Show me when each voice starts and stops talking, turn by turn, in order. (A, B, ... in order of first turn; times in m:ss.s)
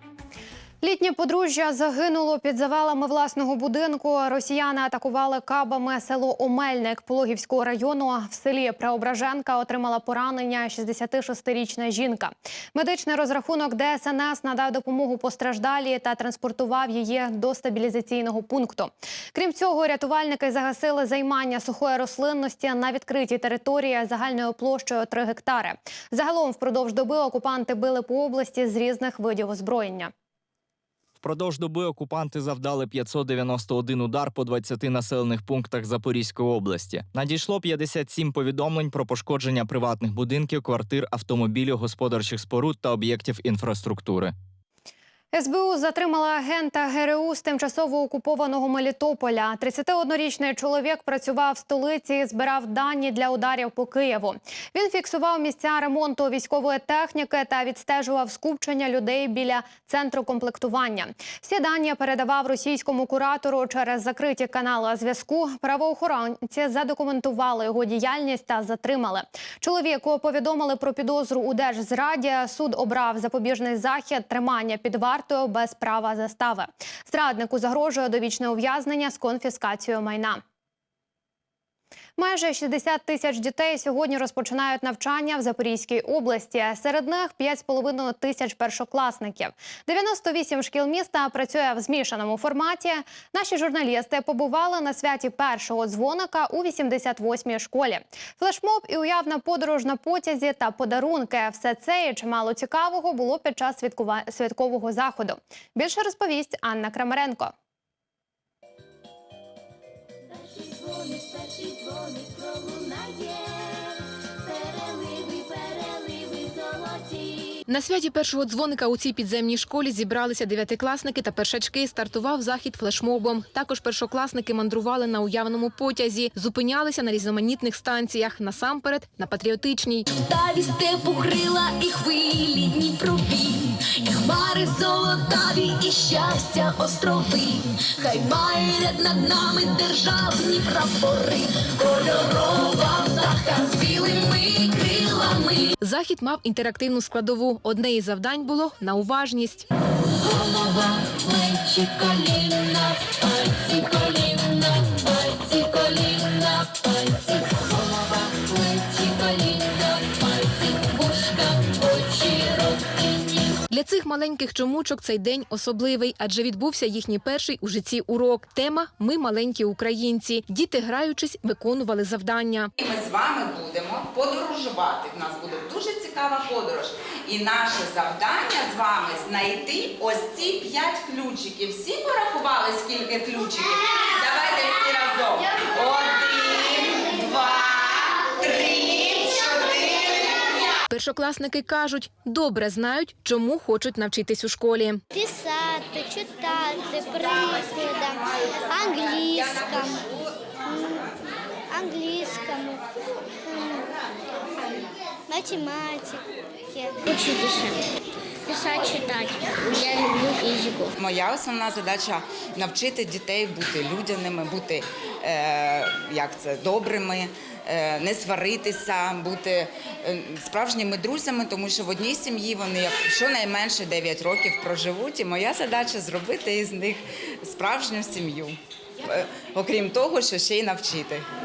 0:00.8-0:30.1 A
0:31.2-0:44.3 B
0:45.3-1:20.4 A
1:22.2-1:47.5 A
1:50.3-1:57.5 C
1:57.7-2:10.1 D
2:10.4-2:13.4 E
2:23.6-2:23.9 E
2:25.8-2:29.7 D
2:31.0-2:42.4 E
2:43.7-2:52.7 D
2:52.8-3:10.5 F
3:10.9-3:15.0 D
3:15.1-3:20.0 C
3:20.7-3:21.1 C
3:21.7-3:22.8 C
3:23.5-3:23.9 C
3:25.3-3:26.2 C
3:26.7-3:27.8 C
3:28.5-3:30.9 C
3:31.0-3:51.2 F